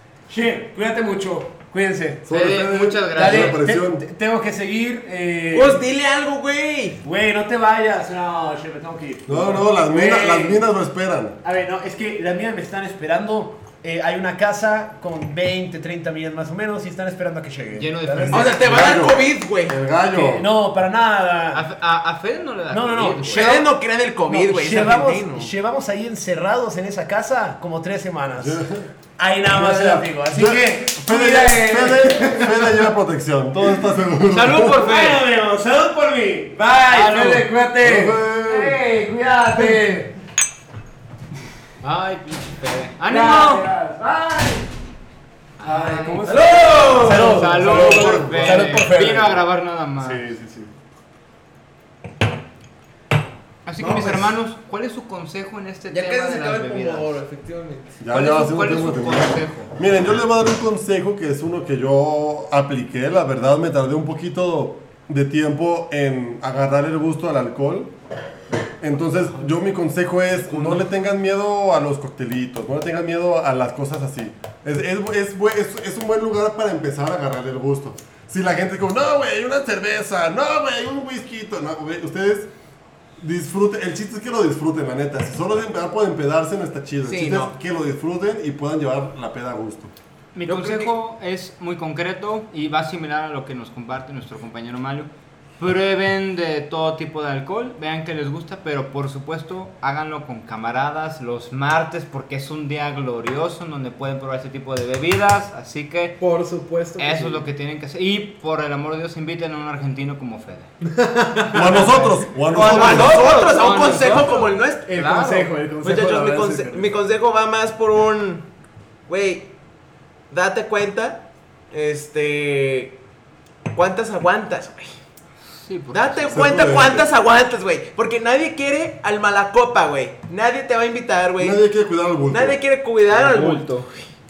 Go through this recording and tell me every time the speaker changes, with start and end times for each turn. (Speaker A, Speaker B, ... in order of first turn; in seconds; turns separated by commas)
Speaker A: 0.3-2.3, Speaker B: 2.3-4.0, Speaker C: 2.3-3.6, Speaker A: 3.1-5.8, Speaker D: 5.5-7.0, Speaker A: 7.0-10.6, Speaker B: 9.3-11.4, Speaker A: 11.4-18.6, Speaker C: 17.8-18.9, Speaker D: 18.3-19.8, Speaker B: 18.4-20.5, Speaker A: 20.1-21.6, Speaker C: 21.5-23.6, Speaker A: 22.7-23.7, Speaker D: 23.2-25.5, Speaker A: 24.2-28.6, Speaker B: 28.4-28.9, Speaker A: 29.2-32.9, Speaker B: 29.5-34.8, Speaker C: 34.3-35.2, Speaker A: 34.7-40.1, Speaker C: 36.8-37.5, Speaker B: 37.8-38.8, Speaker C: 41.8-43.6, Speaker A: 43.1-44.7, Speaker C: 45.6-50.2, Speaker A: 45.6-49.4, Speaker D: 46.2-47.4, Speaker B: 47.4-48.9, Speaker B: 50.0-50.7, Speaker C: 53.6-57.2, Speaker D: 53.8-54.3, Speaker D: 55.9-58.0, Speaker B: 58.0-67.9, Speaker C: 58.1-59.7, Speaker B: 68.8-82.5, Speaker C: 70.4-70.8, Speaker B: 83.2-89.9, Speaker D: 87.0-87.5, Speaker C: 90.3-106.2, Speaker D: 90.5-90.9, Speaker A: 106.2-107.5, Speaker C: 107.0-110.7, Speaker A: 110.8-116.9, Speaker B: 111.5-113.2, Speaker D: 112.5-115.1, Speaker C: 112.5-115.5, Speaker D: 115.8-118.5, Speaker D: 119.1-119.5, Speaker D: 120.3-123.0, Speaker D: 123.7-124.9, Speaker C: 125.5-126.7, Speaker D: 125.9-131.6, Speaker B: 126.3-127.1, Speaker B: 131.4-132.6, Speaker D: 132.3-133.8, Speaker C: 133.1-133.9